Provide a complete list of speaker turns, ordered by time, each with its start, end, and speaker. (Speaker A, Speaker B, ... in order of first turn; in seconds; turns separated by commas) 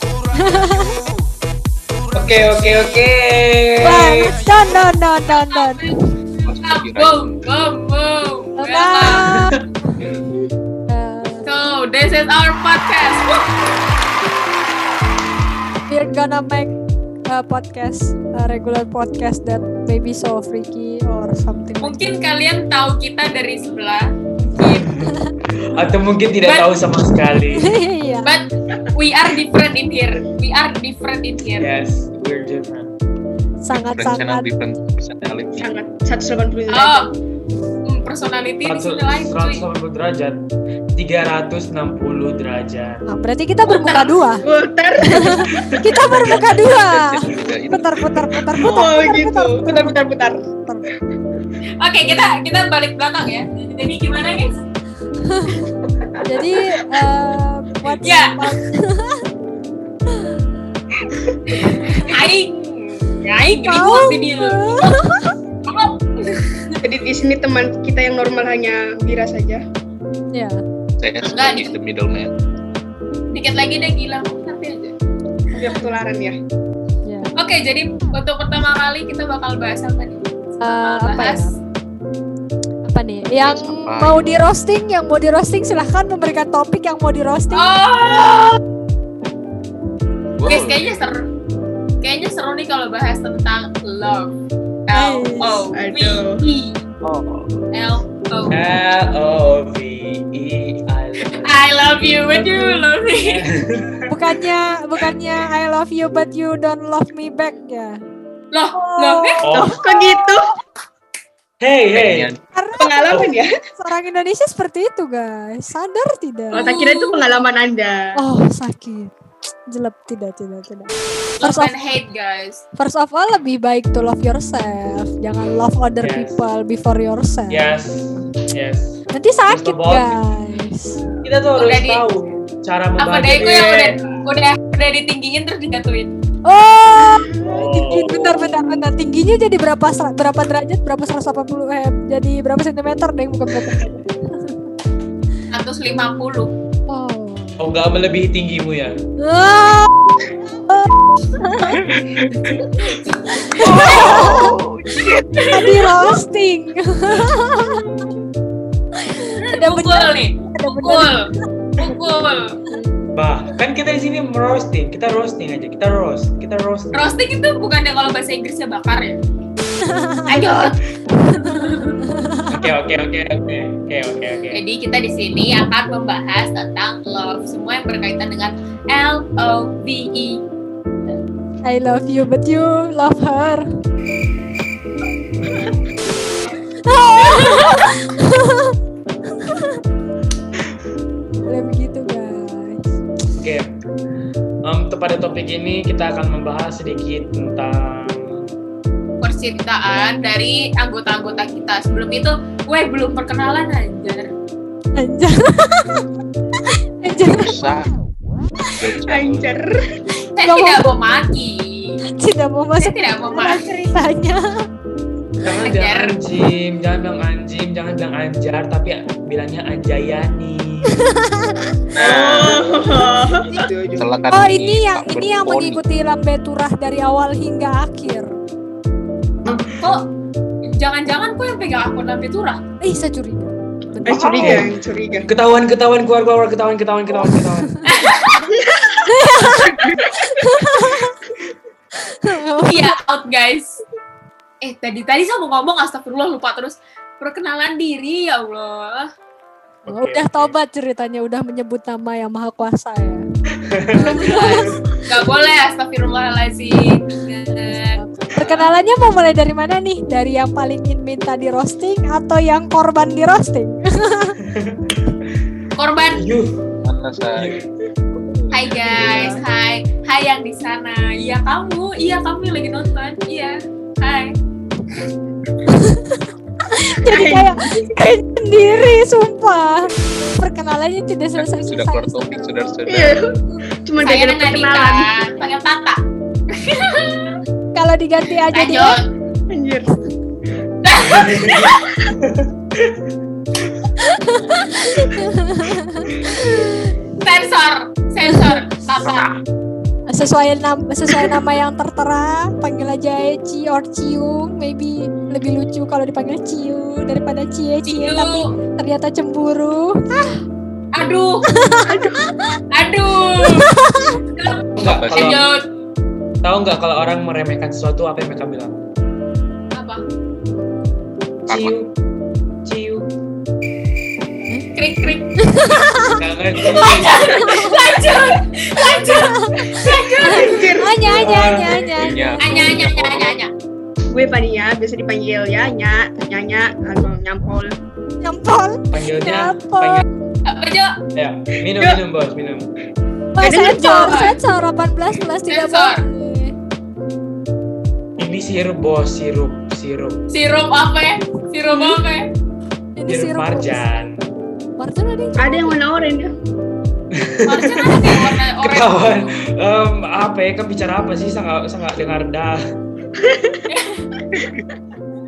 Speaker A: 0.3-1.0, Speaker B: 2.1-4.6, Speaker A: 3.8-6.0, Speaker C: 5.3-6.0, Speaker D: 6.5-7.2, Speaker C: 6.6-9.3, Speaker A: 8.6-9.6, Speaker B: 9.0-10.0, Speaker A: 10.9-11.5, Speaker C: 11.5-13.6, Speaker A: 15.9-16.7, Speaker A: 17.3-22.2, Speaker C: 21.8-24.9, Speaker B: 24.7-27.8, Speaker A: 24.8-25.3, Speaker C: 26.4-26.7, Speaker A: 27.6-28.4, Speaker C: 28.2-31.7, Speaker B: 31.6-32.9, Speaker A: 33.6-34.5, Speaker D: 33.8-35.7, Speaker E: 35.6-37.1, Speaker C: 36.7-37.1, Speaker C: 37.9-39.7, Speaker B: 38.6-40.5, Speaker B: 41.0-43.0, Speaker A: 43.1-44.4, Speaker C: 43.7-44.1, Speaker E: 44.4-45.7, Speaker A: 45.1-50.9, Speaker B: 45.6-46.2, Speaker D: 46.7-48.2, Speaker E: 48.4-50.5, Speaker C: 51.8-54.6, Speaker A: 55.2-59.3, Speaker C: 58.0-58.6, Speaker C: 61.6-65.0, Speaker A: 61.6-62.1, Speaker A: 63.5-65.4, Speaker C: 65.7-66.8, Speaker E: 66.8-69.6, Speaker A: 70.3-70.6, Speaker D: 71.0-72.3, Speaker C: 71.2-71.7, Speaker C: 73.3-75.0, Speaker E: 75.6-76.4, Speaker A: 77.0-77.3, Speaker C: 77.4-81.5, Speaker A: 80.6-81.5, Speaker A: 82.9-87.8, Speaker D: 83.4-84.4, Speaker C: 87.5-88.6, Speaker D: 90.4-91.0, Speaker C: 90.5-91.3, Speaker C: 92.0-94.4, Speaker C: 94.9-96.8, Speaker A: 94.9-95.7, Speaker E: 95.8-96.4, Speaker B: 97.0-97.5, Speaker C: 97.7-98.6, Speaker B: 98.5-101.7, Speaker C: 101.3-103.4, Speaker A: 102.3-102.9, Speaker B: 103.2-104.3, Speaker A: 104.1-108.0, Speaker C: 108.5-109.4, Speaker A: 108.7-110.3, Speaker B: 109.4-109.8, Speaker E: 109.5-110.5, Speaker B: 111.6-112.3, Speaker D: 111.9-112.4, Speaker A: 112.5-113.2, Speaker E: 112.8-113.5, Speaker A: 113.8-116.6, Speaker E: 116.5-118.2, Speaker C: 116.5-117.2, Speaker A: 118.2-119.1, Speaker A: 119.7-121.7, Speaker C: 121.4-122.6, Speaker A: 122.8-127.6, Speaker B: 126.0-126.4, Speaker B: 127.5-130.2, Speaker A: 129.1-131.0, Speaker B: 131.2-134.1, Speaker C: 131.6-132.1, Speaker C: 133.0-136.1, Speaker A: 136.5-144.6, Speaker E: 137.3-137.5, Speaker B: 137.4-138.5, Speaker C: 145.5-146.5, Speaker A: 146.9-147.6, Speaker B: 147.6-149.0, Speaker A: 149.2-151.8, Speaker B: 152.5-152.8, Speaker C: 153.3-153.9, Speaker A: 153.4-154.5, Speaker B: 153.6-154.6, Speaker D: 153.9-155.4, Speaker C: 155.1-156.1, Speaker A: 155.5-157.8, Speaker A: 159.0-161.3, Speaker C: 159.4-162.6, Speaker B: 163.1-167.2, Speaker C: 166.9-169.2, Speaker A: 169.8-170.4, Speaker E: 170.3-170.7, Speaker C: 170.3-170.8, Speaker A: 171.3-172.7, Speaker C: 171.4-172.0, Speaker B: 172.5-174.6, Speaker C: 174.5-180.4, Speaker A: 181.7-183.6, Speaker A: 186.8-188.8, Speaker C: 187.2-187.8, Speaker A: 189.3-189.8, Speaker A: 191.5-192.9, Speaker B: 193.3-193.7, Speaker B: 194.7-198.5, Speaker C: 199.2-204.3, Speaker A: 205.0-206.1, Speaker A: 207.0-207.7, Speaker D: 207.3-207.9, Speaker D: 208.8-209.5, Speaker E: 209.1-209.8, Speaker C: 210.3-212.0, Speaker A: 210.4-210.9, Speaker A: 212.1-214.4, Speaker C: 212.8-213.7, Speaker B: 215.4-221.1, Speaker C: 215.6-216.2, Speaker A: 221.0-221.8, Speaker D: 221.9-222.8, Speaker E: 222.0-224.2, Speaker A: 222.9-223.7, Speaker D: 224.0-225.8, Speaker A: 224.3-228.3, Speaker B: 229.4-229.9, Speaker C: 229.7-230.0, Speaker C: 230.6-232.6, Speaker A: 232.8-234.7, Speaker E: 234.1-235.3, Speaker B: 234.4-234.7, Speaker B: 235.3-238.1, Speaker C: 237.9-238.5, Speaker E: 238.5-239.0, Speaker A: 239.0-241.2, Speaker A: 242.1-243.0, Speaker C: 242.6-243.8, Speaker C: 244.6-249.1, Speaker A: 249.9-253.2, Speaker B: 249.9-250.5, Speaker D: 250.0-250.3, Speaker B: 253.7-254.5, Speaker A: 253.9-255.0, Speaker C: 254.0-258.6, Speaker A: 257.5-264.4, Speaker B: 264.4-265.2, Speaker C: 265.8-266.3, Speaker B: 266.1-266.6, Speaker D: 266.9-267.6, Speaker D: 268.2-268.8, Speaker C: 268.5-274.3, Speaker E: 268.9-269.4, Speaker A: 275.7-282.8, Speaker E: 277.0-277.9, Speaker D: 281.4-283.2, Speaker E: 282.9-285.1, Speaker C: 284.0-287.4, Speaker A: 287.8-289.0, Speaker C: 288.5-289.0, Speaker E: 289.5-289.9, Speaker C: 290.8-291.8, Speaker B: 291.0-293.0, Speaker A: 294.0-296.9, Speaker C: 297.2-299.3, Speaker A: 298.3-298.6, Speaker A: 300.1-310.4, Speaker C: 307.9-308.5, Speaker C: 310.9-311.5, Speaker A: 311.6-312.6, Speaker E: 311.9-312.2, Speaker C: 312.7-315.6, Speaker A: 313.4-314.2, Speaker B: 314.8-315.5, Speaker D: 314.8-315.4, Speaker B: 316.4-318.9, Speaker C: 319.7-320.0, Speaker B: 321.5-321.9, Speaker D: 321.5-321.8, Speaker B: 322.6-323.1, Speaker A: 324.5-324.8, Speaker C: 324.8-325.4, Speaker A: 325.4-326.2, Speaker B: 326.0-327.5, Speaker C: 326.8-330.7, Speaker A: 327.2-327.9, Speaker A: 328.9-332.8, Speaker E: 329.8-331.9, Speaker B: 331.0-331.8, Speaker D: 332.0-333.4, Speaker C: 332.4-333.5, Speaker E: 334.1-337.8, Speaker A: 338.2-340.0, Speaker B: 338.9-340.0, Speaker C: 340.4-341.0, Speaker B: 341.1-342.7, Speaker E: 341.7-342.0, Speaker A: 343.4-346.5, Speaker E: 343.4-344.2, Speaker C: 344.0-344.4, Speaker C: 345.5-346.1, Speaker B: 348.2-350.2, Speaker C: 350.3-352.3, Speaker A: 353.0-353.9, Speaker B: 353.1-354.2, Speaker A: 354.8-355.8, Speaker E: 355.4-356.3, Speaker B: 357.1-362.6, Speaker C: 357.4-359.3, Speaker E: 363.2-363.6, Speaker C: 363.7-364.1